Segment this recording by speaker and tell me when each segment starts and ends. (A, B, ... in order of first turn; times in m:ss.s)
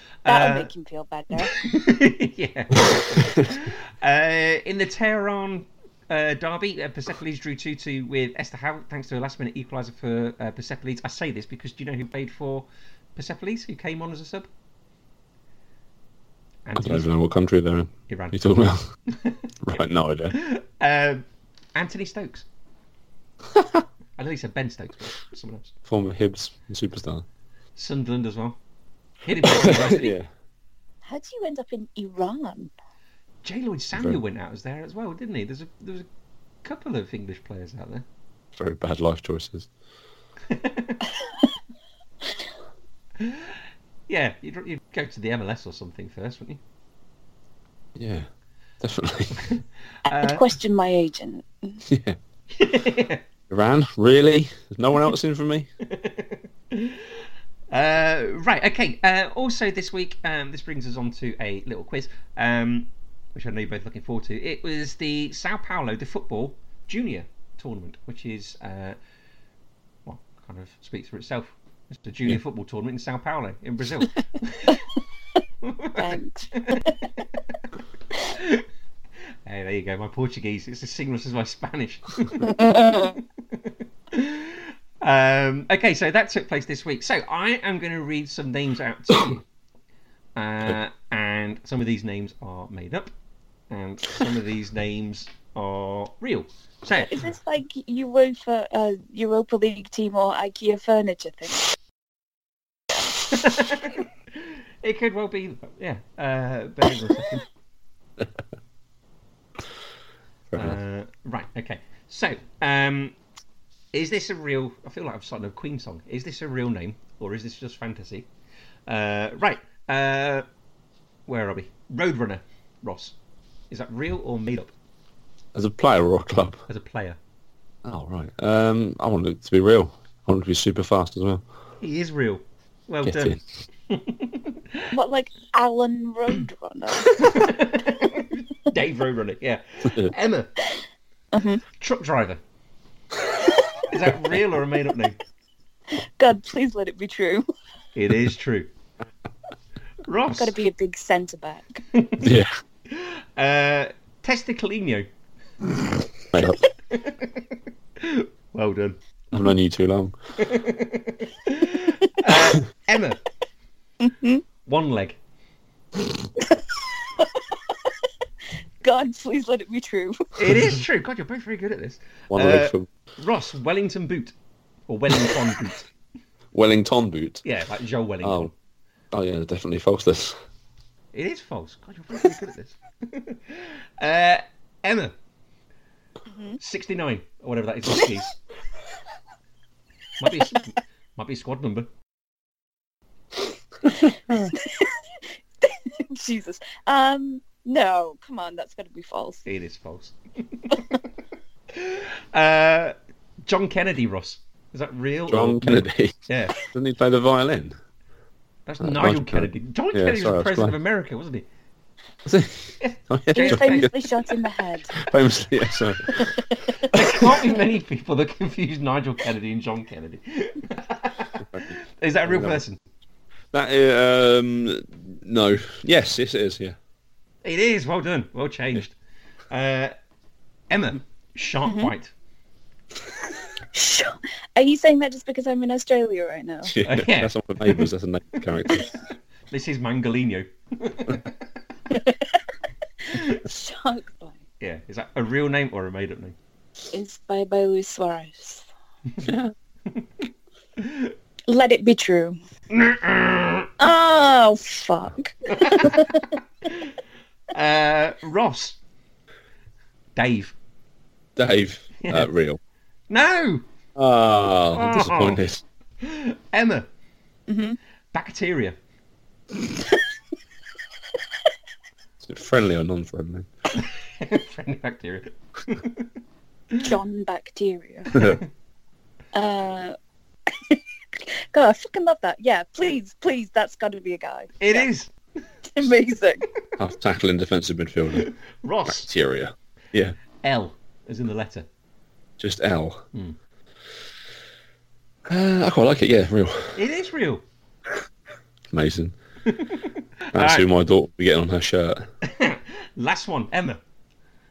0:00.2-0:00.7 A
0:00.2-0:01.6 B
0:01.4-0:14.5 A
0:16.6-0:17.1 A
0:16.8-0:18.8 C
0:18.1-0:19.5 A
0:19.6-0:20.4 C
0:20.3-0:22.4 A
0:24.2-0:25.7 A
0:25.9-0:27.2 C
0:27.8-0:28.6 A
0:29.2-0:30.2 A
0:29.4-0:30.3 C
0:31.0-0:32.7 B
0:33.4-0:36.1 A
0:36.6-0:38.0 A
0:38.5-0:39.7 C
0:40.5-0:41.0 A
0:43.2-0:43.6 A
0:44.1-0:46.6 A
0:48.0-0:48.3 C
0:48.8-0:49.4 C
0:49.3-0:50.4 A
0:50.1-0:51.8 B
0:51.9-0:52.2 C
0:52.5-0:53.2 A
0:53.5-0:55.7 C
0:55.8-1:09.0 A
1:10.0-1:14.8 A
1:15.6-1:17.2 A
1:16.0-1:17.0 B
1:18.2-1:18.6 A
1:19.4-1:29.5 A
1:22.5-1:23.1 B
1:30.4-1:33.1 A
1:33.7-1:37.2 A
1:37.1-1:41.6 B
1:43.3-1:47.4 A
1:50.5-1:50.8 C
1:50.5-1:53.1 A
1:53.9-1:58.3 A
1:58.9-2:00.5 A
2:01.3-2:03.1 A
2:03.7-2:04.7 A
2:05.5-2:06.6 C
2:06.7-2:07.2 A
2:07.8-2:11.4 C
2:11.8-2:13.4 A
2:13.0-2:13.4 C
2:13.9-2:14.9 A
2:14.9-2:17.5 B
2:17.1-2:20.5 A
2:21.3-2:21.6 B
2:21.8-2:22.4 A
2:23.8-2:25.2 A
2:26.2-2:27.5 B
2:27.9-2:28.7 A
2:30.0-2:30.5 A
2:30.3-2:31.8 B
2:31.9-2:32.2 A
2:32.2-2:32.5 C
2:32.9-2:35.1 A
2:36.3-2:36.6 C
2:36.9-2:39.0 A
2:39.3-2:40.1 C
2:40.4-2:43.2 A
2:44.0-2:44.4 B
2:44.6-2:45.2 A
2:47.2-2:47.7 B
2:48.8-2:50.4 B
2:50.4-2:54.4 A
2:52.3-2:52.9 C
2:54.9-2:55.8 A
2:56.5-2:57.4 C
2:57.4-2:58.5 A
2:58.2-2:58.5 C
2:59.1-3:00.4 C
3:01.1-3:05.1 A
3:06.3-3:06.6 B
3:06.6-3:08.4 A
3:10.2-3:11.9 A
3:13.9-3:15.0 B
3:15.6-3:19.4 B
3:19.4-3:21.1 A
3:21.7-3:26.6 A
3:25.3-3:27.8 C
3:28.6-3:31.5 A
3:28.8-3:30.8 C
3:32.2-3:33.9 C
3:32.8-3:33.9 A
3:33.4-3:35.0 B
3:35.0-3:37.3 C
3:36.8-3:42.8 A
3:42.3-3:42.6 C
3:43.5-3:46.8 C
3:47.4-3:49.0 A
3:49.5-3:49.9 A
3:50.7-3:52.1 A
3:51.7-3:51.9 B
3:53.7-3:56.8 B
3:56.6-3:58.9 C
3:56.8-3:57.9 A
3:58.6-3:58.9 A
3:59.5-4:01.4 A
4:01.9-4:02.4 B
4:03.1-4:04.4 B
4:03.1-4:03.4 A
4:04.6-4:06.4 A
4:06.9-4:08.7 B
4:09.2-4:09.5 C
4:10.8-4:11.1 A
4:11.5-4:12.4 B
4:12.7-4:13.7 A
4:13.8-4:16.4 B
4:15.5-4:16.9 A
4:17.5-4:18.8 A
4:20.2-4:20.5 A
4:21.4-4:22.6 C
4:22.0-4:22.3 A
4:23.1-4:23.6 A
4:24.0-4:25.6 C
4:24.8-4:25.4 A
4:26.0-4:26.9 A
4:27.5-4:27.8 B
4:28.1-4:28.8 A
4:32.2-4:33.5 C
4:33.7-4:36.1 A
4:36.8-4:38.3 B
4:38.1-4:38.4 A
4:39.3-4:40.0 B
4:40.5-4:44.9 B
4:44.6-4:45.1 A
4:45.7-4:46.5 B
4:46.8-4:48.3 C
4:48.1-4:49.1 A
4:48.8-4:50.2 C
4:50.4-4:51.7 A
4:52.4-4:53.0 C
4:55.3-4:56.8 C
4:56.8-4:57.4 A
4:58.7-4:59.1 C
4:59.5-5:00.7 A
5:00.3-5:02.1 C
5:02.2-5:03.8 A